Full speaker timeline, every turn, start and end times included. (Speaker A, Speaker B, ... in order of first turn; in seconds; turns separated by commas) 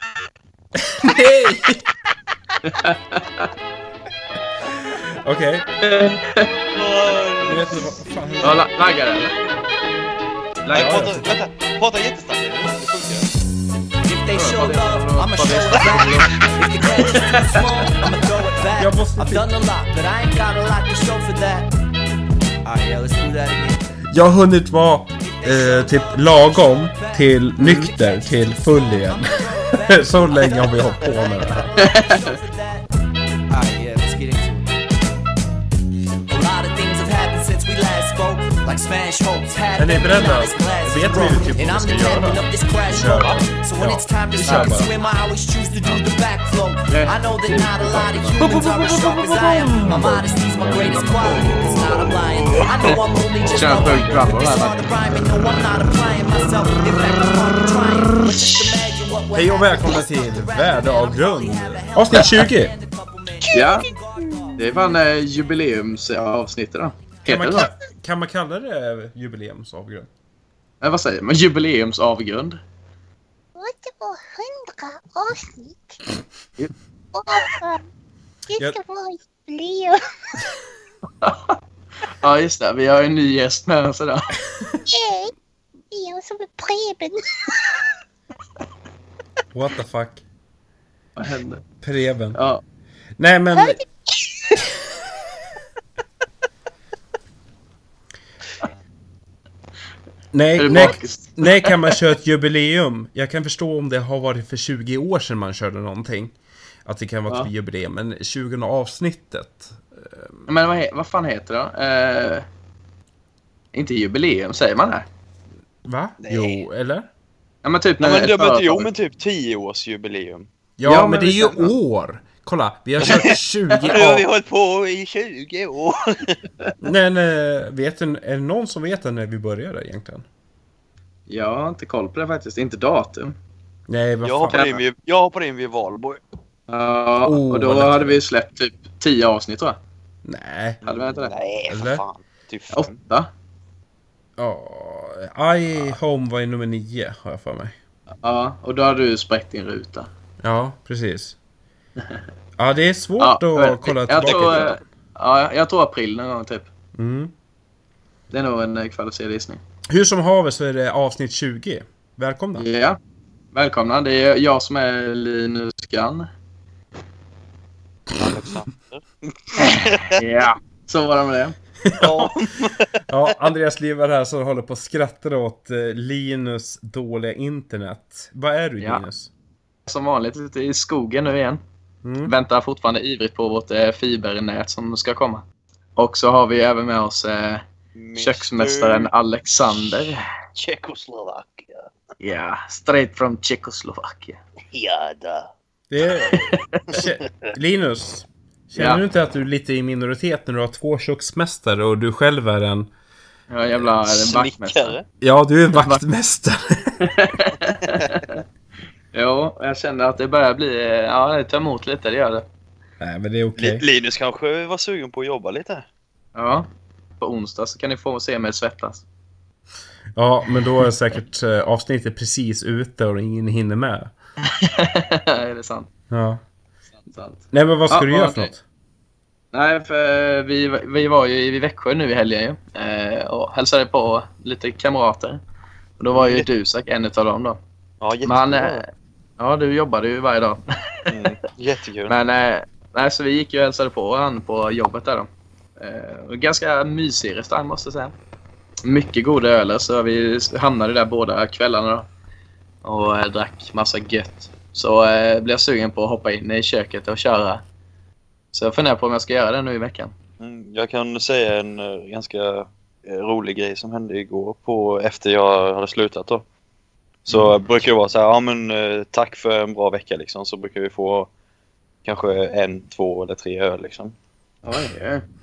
Speaker A: 0.9-1.8, Speaker B: 2.6-3.5, Speaker A: 4.7-5.7, Speaker B: 5.8-6.5, Speaker C: 6.7-7.9, Speaker A: 7.4-8.7, Speaker B: 8.4-9.3, Speaker B: 10.6-11.1, Speaker C: 10.7-13.3, Speaker A: 10.7-11.2, Speaker D: 14.0-21.7, Speaker B: 14.3-17.7, Speaker A: 18.8-19.5, Speaker D: 22.6-23.8, Speaker A: 24.1-31.7, Speaker D: 25.2-32.9, Speaker B: 31.8-32.3, Speaker D: 33.5-34.8, Speaker D: 36.3-64.7, Speaker A: 39.8-44.9, Speaker B: 44.4-44.9, Speaker B: 46.9-48.5, Speaker A: 48.4-51.6, Speaker B: 52.8-55.0, Speaker A: 53.9-54.2, Speaker A: 59.3-62.7, Speaker E: 63.4-64.9, Speaker B: 63.5-63.9, Speaker B: 64.6-67.7, Speaker A: 67.2-70.1, Speaker B: 70.8-72.6, Speaker E: 73.5-76.0, Speaker E: 77.1-77.8, Speaker E: 78.5-80.4, Speaker B: 82.2-84.4, Speaker E: 84.9-85.3, Speaker E: 85.9-87.2, Speaker A: 89.5-90.2, Speaker B: 91.2-91.6, Speaker A: 91.8-92.4, Speaker B: 92.3-92.6, Speaker A: 93.2-93.8, Speaker E: 93.6-93.8, Speaker A: 100.3-106.3, Speaker B: 100.6-101.9, Speaker A: 106.8-110.4, Speaker B: 110.5-112.5, Speaker B: 113.7-115.0, Speaker A: 115.8-117.1, Speaker C: 116.2-116.6, Speaker B: 117.6-118.9, Speaker C: 118.0-120.5, Speaker A: 120.8-124.2, Speaker B: 120.8-121.7, Speaker C: 123.0-126.4, Speaker A: 126.8-130.2, Speaker B: 131.3-133.3, Speaker A: 133.9-134.7, Speaker C: 134.2-136.2, Speaker B: 134.5-134.8, Speaker B: 136.7-139.8, Speaker A: 137.2-138.2, Speaker A: 140.2-140.8, Speaker B: 140.8-141.3, Speaker C: 140.8-142.9, Speaker A: 141.7-142.0, Speaker B: 142.7-143.3, Speaker A: 144.4-147.7, Speaker B: 148.2-150.1, Speaker A: 150.4-151.3, Speaker A: 152.6-154.8, Speaker B: 153.2-156.7, Speaker C: 154.2-154.6, Speaker A: 156.9-157.3, Speaker B: 158.3-159.6, Speaker A: 159.9-162.7, Speaker B: 162.6-163.0, Speaker B: 163.5-166.3, Speaker C: 168.1-170.2, Speaker B: 170.2-171.6, Speaker A: 171.9-172.3, Speaker C: 172.0-173.3, Speaker A: 173.1-179.3, Speaker B: 179.9-181.6, Speaker A: 182.0-182.3, Speaker B: 182.2-185.4, Speaker B: 186.0-187.6, Speaker C: 187.9-189.1, Speaker B: 188.2-190.2, Speaker C: 189.7-191.9, Speaker B: 192.2-194.4, Speaker C: 194.7-195.5, Speaker A: 195.9-202.9, Speaker C: 196.9-197.5, Speaker B: 198.8-199.0, Speaker B: 203.5-205.0, Speaker C: 204.0-205.0, Speaker A: 205.2-207.0, Speaker B: 205.7-206.0, Speaker B: 207.0-208.4, Speaker C: 207.9-208.2, Speaker B: 209.1-212.4, Speaker A: 213.0-213.8, Speaker C: 213.6-215.8, Speaker B: 216.3-216.7, Speaker B: 217.2-219.0, Speaker A: 220.2-224.1, Speaker B: 224.5-225.9, Speaker A: 226.1-226.4, Speaker B: 227.1-228.5, Speaker A: 227.5-228.6, Speaker B: 229.5-235.4, Speaker B: 236.0-237.6, Speaker C: 236.1-236.5, Speaker C: 238.0-238.8, Speaker B: 238.2-241.3, Speaker C: 241.1-242.2, Speaker B: 242.1-248.1, Speaker B: 248.8-252.1, Speaker B: 252.8-257.6, Speaker B: 258.5-260.1, Speaker C: 260.4-266.4, Speaker C: 267.2-271.3, Speaker C: 272.0-274.1, Speaker B: 274.6-275.2